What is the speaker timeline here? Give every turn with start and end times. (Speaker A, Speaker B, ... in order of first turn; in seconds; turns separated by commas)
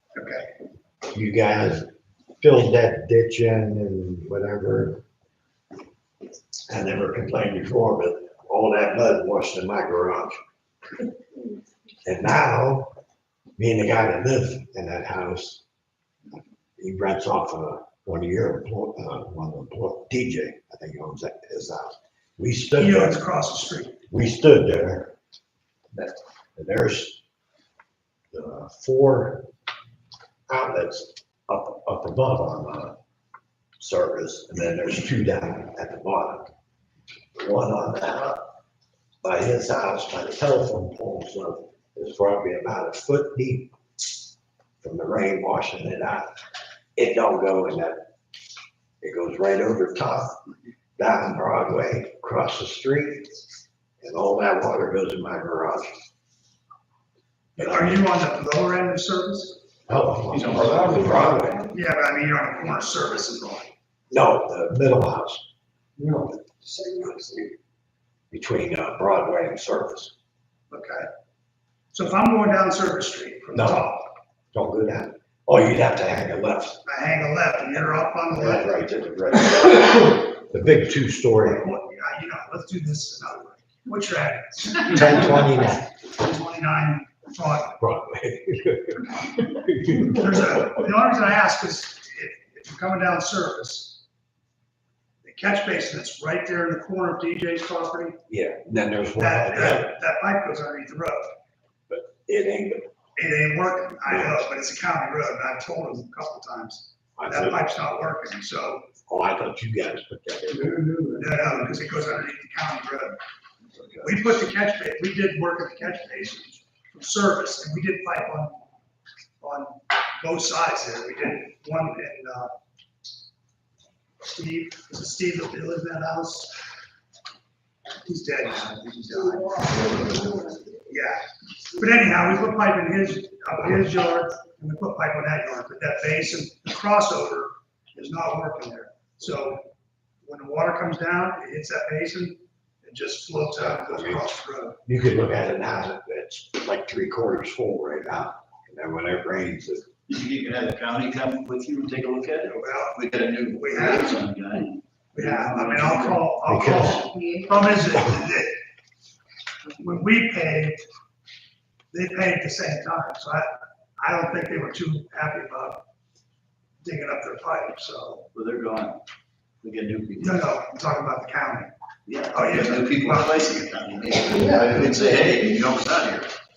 Speaker A: 0.1-0.5, Speaker B: 1.1-5.0, Speaker B: 6.7-10.4, Speaker B: 12.0-12.9, Speaker B: 13.6-15.6, Speaker B: 16.8-23.2, Speaker A: 22.8-24.0, Speaker B: 24.1-25.1, Speaker B: 25.9-27.2, Speaker B: 28.3-29.5, Speaker B: 30.5-33.0, Speaker B: 33.8-36.5, Speaker B: 37.4-38.5, Speaker B: 39.2-43.7, Speaker B: 44.8-46.3, Speaker B: 47.0-48.1, Speaker B: 49.0-50.4, Speaker B: 51.0-53.4, Speaker B: 54.0-56.0, Speaker A: 57.6-59.6, Speaker B: 57.6-58.0, Speaker B: 59.9-61.7, Speaker C: 60.3-61.2, Speaker A: 61.7-63.7, Speaker B: 64.1-65.4, Speaker B: 66.9-67.5, Speaker B: 68.3-70.1, Speaker A: 70.7-71.1, Speaker A: 71.9-74.0, Speaker B: 73.5-73.8, Speaker B: 74.5-76.8, Speaker A: 76.8-78.7, Speaker B: 78.3-81.7, Speaker A: 81.4-87.8, Speaker B: 84.9-85.9, Speaker B: 87.8-90.3, Speaker A: 89.9-94.0, Speaker A: 95.2-98.2, Speaker B: 98.3-99.9, Speaker A: 99.2-101.3, Speaker B: 101.9-102.9, Speaker A: 103.2-108.9, Speaker B: 104.0-104.4, Speaker B: 107.2-107.6, Speaker B: 109.1-111.0, Speaker A: 111.0-113.2, Speaker A: 114.0-118.6, Speaker A: 119.4-122.5, Speaker A: 124.3-126.5, Speaker A: 128.0-129.8, Speaker C: 129.7-130.5, Speaker A: 130.8-139.6, Speaker A: 140.2-144.8, Speaker B: 143.7-144.3, Speaker B: 144.8-149.9, Speaker C: 150.1-156.3, Speaker A: 152.5-154.1, Speaker A: 155.1-158.5, Speaker B: 156.5-157.1, Speaker A: 159.8-160.8, Speaker A: 161.9-165.8, Speaker A: 166.8-168.3, Speaker C: 168.3-169.0, Speaker C: 169.6-170.4, Speaker A: 170.2-171.7, Speaker C: 172.1-176.3, Speaker A: 172.3-173.4